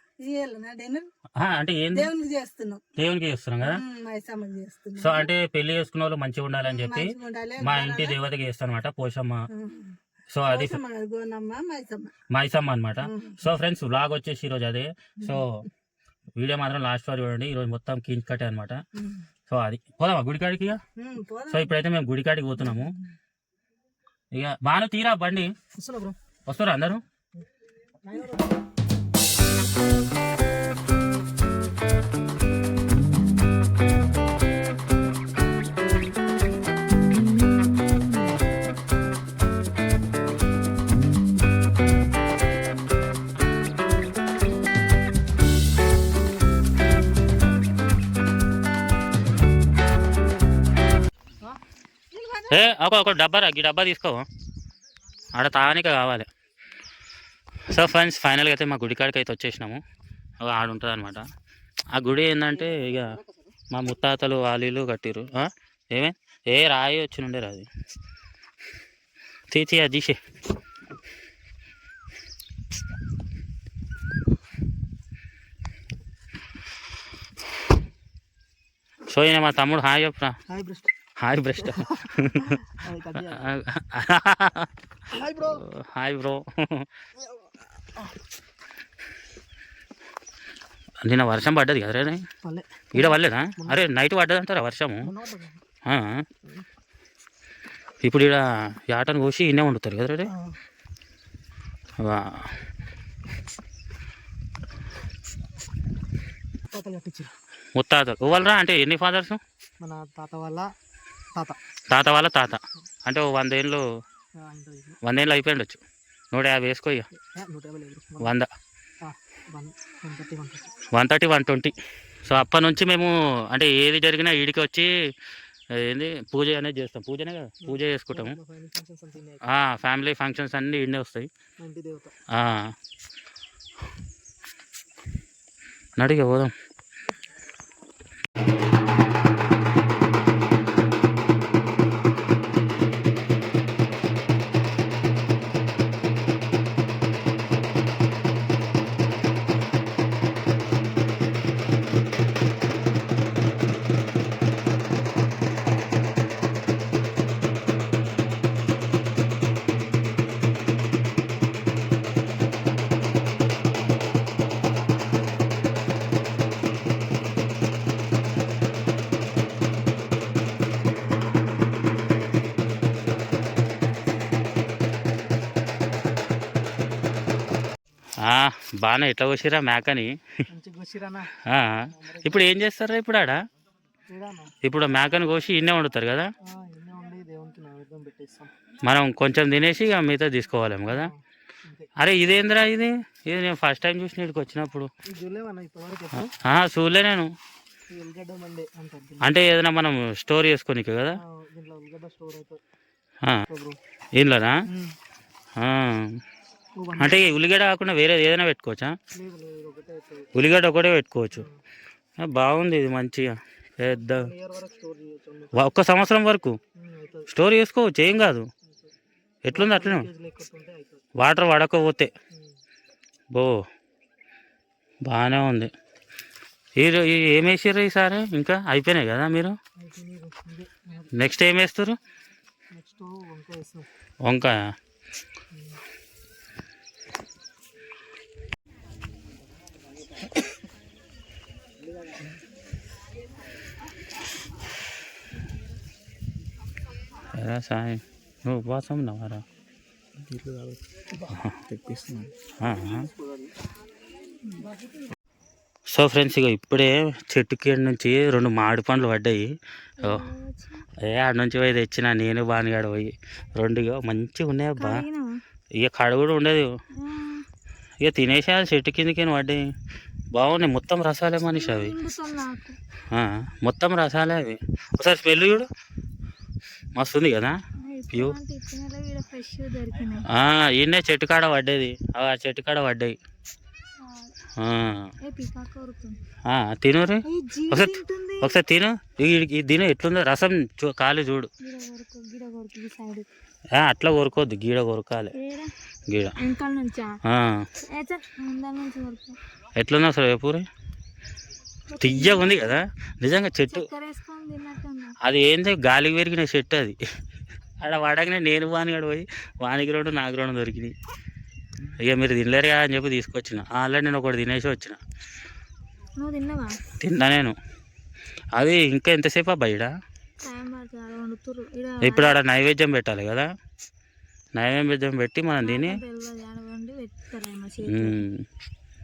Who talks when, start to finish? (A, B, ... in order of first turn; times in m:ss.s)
0:00.2-0:01.0 A
0:01.4-0:02.1 B
0:02.1-0:02.8 A
0:03.0-0:03.8 B
0:03.9-0:04.8 C
0:03.9-0:04.9 A
0:04.9-0:09.4 B
0:07.0-0:07.5 A
0:09.5-0:09.9 C
0:10.3-0:10.8 B
0:10.8-0:12.0 A
0:11.2-0:12.0 C
0:12.3-0:15.7 B
0:16.4-0:18.8 B
0:19.5-0:20.8 B
0:21.0-0:21.5 A
0:21.5-0:22.9 B
0:24.3-0:25.5 B
0:25.8-0:26.2 A
0:26.5-0:27.0 B
0:28.0-0:28.5 A
0:52.5-0:54.2 B
0:55.4-0:56.3 B
0:57.7-0:59.8 B
1:00.4-1:01.2 B
1:01.9-1:03.2 B
1:03.7-1:07.7 B
1:09.5-1:10.2 B
1:19.1-1:20.4 B
1:20.5-1:20.9 A
1:21.2-1:22.6 B
1:21.6-1:23.4 A
1:23.3-1:24.7 B
1:25.1-1:25.6 A
1:25.4-1:26.9 B
1:31.0-1:32.2 B
1:32.4-1:33.8 A
1:32.9-1:35.1 B
1:35.0-1:35.6 A
1:35.8-1:36.2 B
1:38.0-1:40.3 B
1:40.2-1:40.6 A
1:42.0-1:42.5 B
1:46.7-1:47.3 A
1:47.8-1:49.4 B
1:49.8-1:50.7 A
1:51.9-1:53.8 B
1:54.4-1:55.0 A
1:55.0-1:55.8 B
1:56.3-1:57.1 B
1:57.2-1:58.4 A
1:58.2-1:58.5 B
1:59.0-2:00.6 A
2:00.9-2:01.7 B
2:02.2-2:04.9 B
2:05.7-2:08.4 B
2:07.6-2:09.4 A
2:09.4-2:11.3 B
2:11.6-2:12.1 A
2:12.3-2:12.7 B
2:16.0-2:16.5 B
2:58.2-3:00.1 B
3:00.5-3:01.3 A
3:01.4-3:03.4 B
3:02.0-3:02.5 A
3:04.1-3:04.5 A
3:04.6-3:06.3 B
3:06.4-3:08.5 A
3:08.8-3:11.1 B
3:10.9-3:11.9 A
3:12.0-3:14.9 B
3:15.0-3:16.3 A
3:16.2-3:17.3 B
3:17.9-3:19.3 A
3:19.2-3:21.2 B
3:21.2-3:22.6 A
3:23.5-3:23.8 A
3:24.2-3:24.6 B
3:24.7-3:25.0 A
3:25.6-3:26.2 B
3:26.8-3:27.3 A
3:27.0-3:28.9 B
3:29.1-3:30.3 A
3:30.3-3:31.5 B
3:32.2-3:34.3 B
3:34.0-3:35.6 A
3:35.5-3:36.6 B
3:36.8-3:37.3 A
3:37.3-3:38.5 B
3:39.4-3:40.1 B
3:39.5-3:41.0 A
3:41.2-3:42.1 B
3:45.0-3:45.7 B
3:46.8-3:49.5 B
3:49.8-3:51.1 A
3:51.1-3:52.0 B
3:52.7-3:53.9 A
3:54.2-3:54.7 B
4:07.3-4:09.4 B
4:10.3-4:10.8 A
4:11.3-4:11.6 B
4:11.7-4:12.3 A
4:12.6-4:13.1 B
4:15.9-4:19.5 B
4:20.0-4:20.3 B
4:20.0-4:20.8 C
4:21.0-4:25.0 B
4:24.8-4:25.4 C
4:25.8-4:26.7 B
4:27.0-4:27.5 C
4:28.0-4:29.7 B
4:30.3-4:32.0 B
4:31.5-4:32.8 C
4:33.1-4:35.7 B
4:37.0-4:37.5 B
4:37.8-4:40.3 C
4:38.1-4:38.4 B
4:40.3-4:43.1 B
4:44.6-4:45.1 B
4:45.2-4:46.2 C
4:46.5-4:51.5 B
4:47.3-4:48.6 C
4:51.6-4:53.3 C
4:53.7-4:55.3 B
4:55.4-4:55.7 C
4:56.1-4:56.4 B
4:56.4-4:57.2 C
4:57.2-4:57.7 B
4:57.9-4:59.4 C
4:59.8-5:00.6 B
5:01.9-5:02.8 C
5:02.0-5:03.9 B
5:03.7-5:05.2 C
5:05.2-5:07.0 B
5:07.8-5:10.9 B
5:11.8-5:15.0 B
5:16.2-5:16.8 C
5:17.0-5:17.6 B
5:18.6-5:19.9 B
5:20.4-5:22.3 C
5:22.0-5:23.5 B
5:24.5-5:26.0 B
5:25.6-5:28.2 C
5:27.9-5:28.4 B